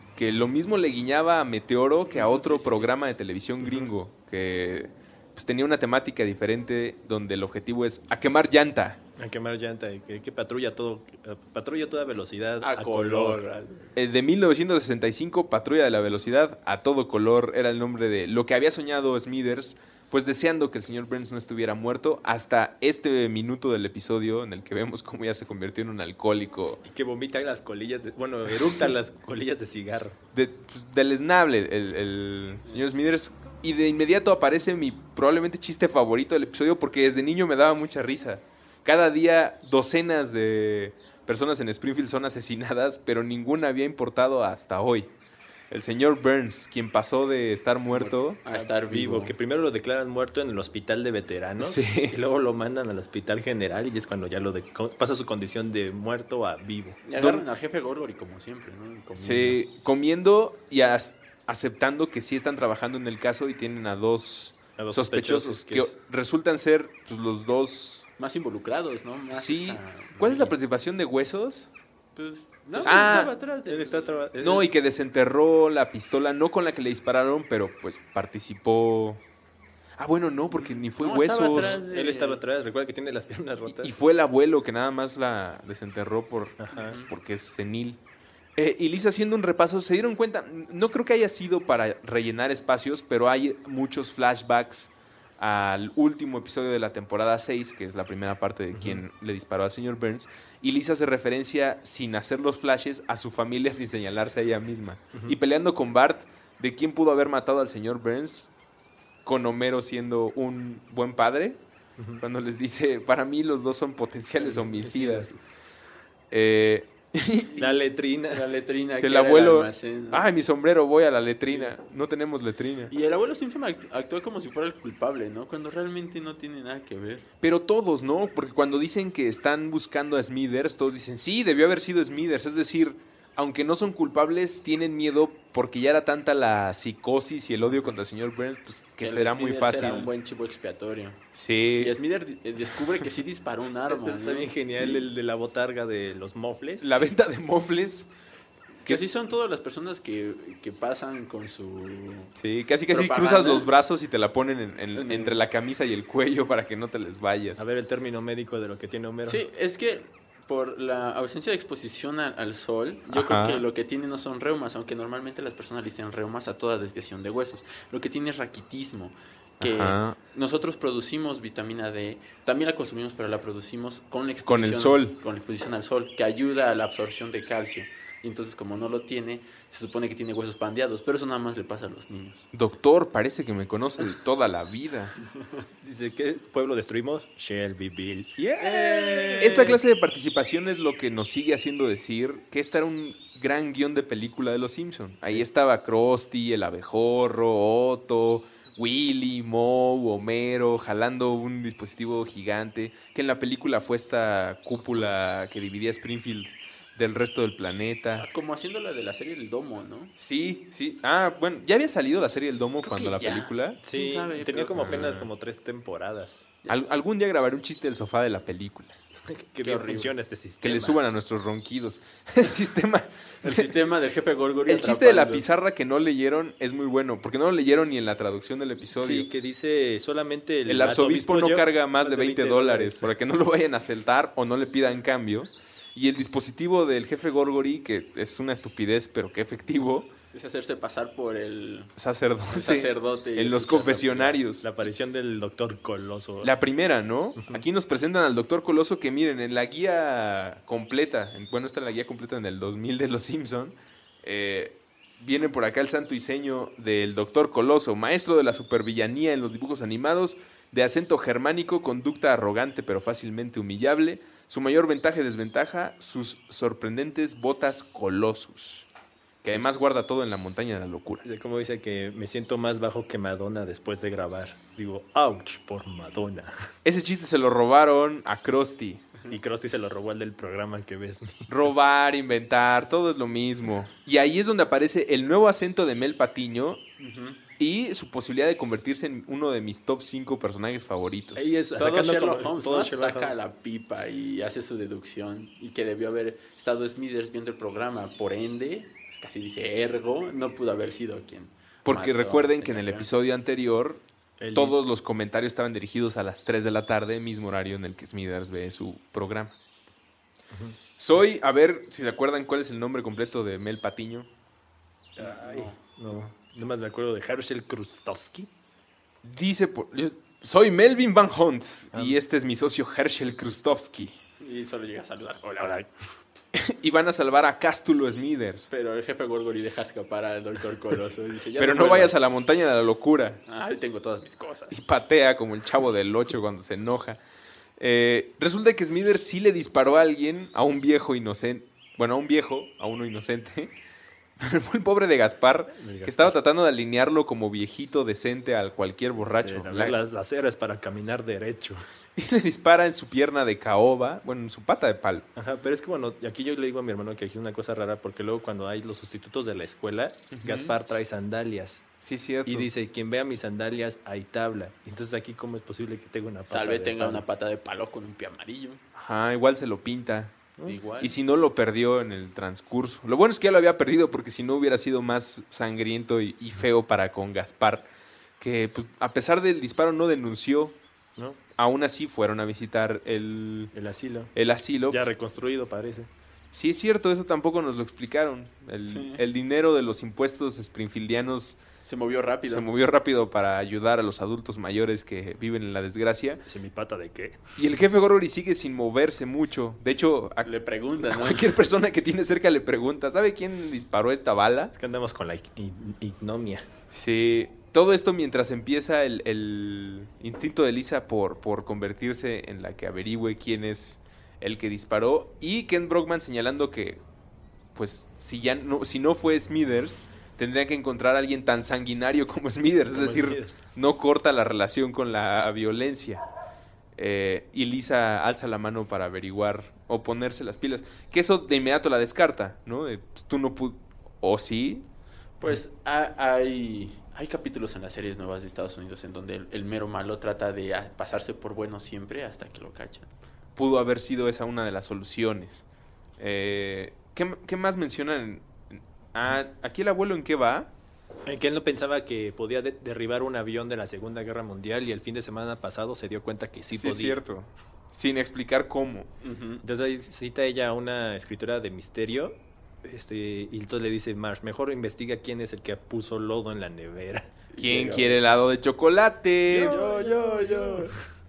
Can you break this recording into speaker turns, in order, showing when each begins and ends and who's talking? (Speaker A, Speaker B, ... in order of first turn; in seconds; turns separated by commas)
Speaker A: 0.2-9.0, Speaker B: 2.1-2.9, Speaker B: 3.6-3.9, Speaker B: 9.2-13.4, Speaker C: 12.6-13.9, Speaker A: 14.0-26.8, Speaker B: 26.8-30.2, Speaker A: 28.6-28.9, Speaker A: 30.3-45.1, Speaker A: 45.7-48.4, Speaker C: 47.9-49.4, Speaker B: 48.5-57.0, Speaker A: 51.6-52.2, Speaker C: 57.1-59.6, Speaker A: 57.2-57.5, Speaker A: 59.2-68.1, Speaker B: 64.8-65.9, Speaker C: 68.2-70.5, Speaker A: 69.3-71.7, Speaker C: 72.2-74.2, Speaker B: 72.7-74.7, Speaker A: 72.8-73.3, Speaker A: 74.4-79.2, Speaker A: 80.0-81.8, Speaker C: 80.5-82.4, Speaker B: 81.5-83.9, Speaker A: 83.7-88.0, Speaker B: 86.6-87.0, Speaker C: 86.7-87.1, Speaker A: 88.6-108.5, Speaker B: 98.7-99.0, Speaker A: 109.2-111.6, Speaker B: 112.0-112.2, Speaker A: 112.2-115.4, Speaker B: 114.4-115.3, Speaker A: 116.3-117.6, Speaker B: 117.6-118.5, Speaker C: 118.3-120.2, Speaker A: 119.0-122.9, Speaker C: 122.9-127.3, Speaker A: 127.4-140.1, Speaker C: 139.0-141.2, Speaker A: 141.3-141.9, Speaker C: 141.8-145.0, Speaker B: 143.9-146.9, Speaker A: 146.8-148.1, Speaker C: 148.8-152.3, Speaker A: 152.4-157.6, Speaker C: 152.9-153.7, Speaker C: 154.9-155.4, Speaker B: 157.6-159.5, Speaker C: 159.2-182.5, Speaker A: 163.1-163.6, Speaker A: 169.6-170.2, Speaker A: 174.5-175.2, Speaker A: 182.5-185.1, Speaker B: 185.8-189.8, Speaker C: 188.6-189.8, Speaker A: 189.4-208.3, Speaker C: 208.1-210.1, Speaker A: 210.2-213.8, Speaker C: 212.8-215.2, Speaker B: 213.8-216.5, Speaker A: 214.8-215.3, Speaker A: 216.7-219.0, Speaker B: 219.3-221.0, Speaker C: 219.6-220.1, Speaker A: 220.6-223.7, Speaker C: 223.4-225.4, Speaker A: 224.7-229.3, Speaker B: 229.0-233.1, Speaker A: 230.7-240.1, Speaker C: 240.3-241.9, Speaker A: 242.0-244.7, Speaker C: 242.5-244.4, Speaker B: 244.6-246.5, Speaker A: 246.4-268.9, Speaker B: 247.4-247.6, Speaker A: 269.4-271.2, Speaker B: 271.2-276.7, Speaker A: 276.9-279.1, Speaker B: 279.3-281.8, Speaker A: 281.5-286.8, Speaker C: 287.0-287.4, Speaker A: 287.6-291.5, Speaker B: 291.4-293.4, Speaker C: 291.8-303.2, Speaker A: 301.9-304.0, Speaker B: 304.4-304.8, Speaker A: 304.5-309.5, Speaker B: 310.5-310.8, Speaker A: 311.0-314.3, Speaker B: 315.2-318.5, Speaker C: 315.2-315.8, Speaker A: 319.2-324.2, Speaker B: 321.9-322.2, Speaker C: 324.4-325.9, Speaker A: 326.5-328.7, Speaker C: 328.7-332.2, Speaker A: 331.6-333.4, Speaker C: 333.5-334.8, Speaker A: 334.7-337.2, Speaker A: 337.8-343.7, Speaker A: 344.4-350.0, Speaker B: 345.8-346.4, Speaker B: 349.4-351.9, Speaker A: 352.2-355.3, Speaker B: 355.4-361.8, Speaker A: 360.3-360.8, Speaker A: 362.0-362.7, Speaker B: 362.5-367.2, Speaker C: 366.5-368.8, Speaker A: 368.9-370.4, Speaker C: 370.7-371.2, Speaker A: 371.0-377.9, Speaker A: 378.4-380.8, Speaker A: 381.6-383.7, Speaker B: 383.7-384.3, Speaker A: 384.4-385.1, Speaker B: 384.9-386.1, Speaker A: 386.5-391.6, Speaker C: 388.9-389.2, Speaker C: 391.9-392.7, Speaker A: 392.5-396.4, Speaker B: 396.5-397.4, Speaker A: 397.6-404.7, Speaker C: 400.4-401.6, Speaker B: 404.7-406.7, Speaker A: 406.9-417.0, Speaker A: 417.8-426.2, Speaker B: 422.9-423.6, Speaker A: 427.0-434.9, Speaker C: 435.4-443.1, Speaker A: 443.6-445.6, Speaker A: 446.2-450.7, Speaker B: 451.3-457.2, Speaker A: 456.7-459.1, Speaker C: 459.2-459.6, Speaker B: 459.6-467.3, Speaker C: 467.5-468.2, Speaker A: 467.6-469.8, Speaker B: 469.5-471.0, Speaker C: 469.5-470.9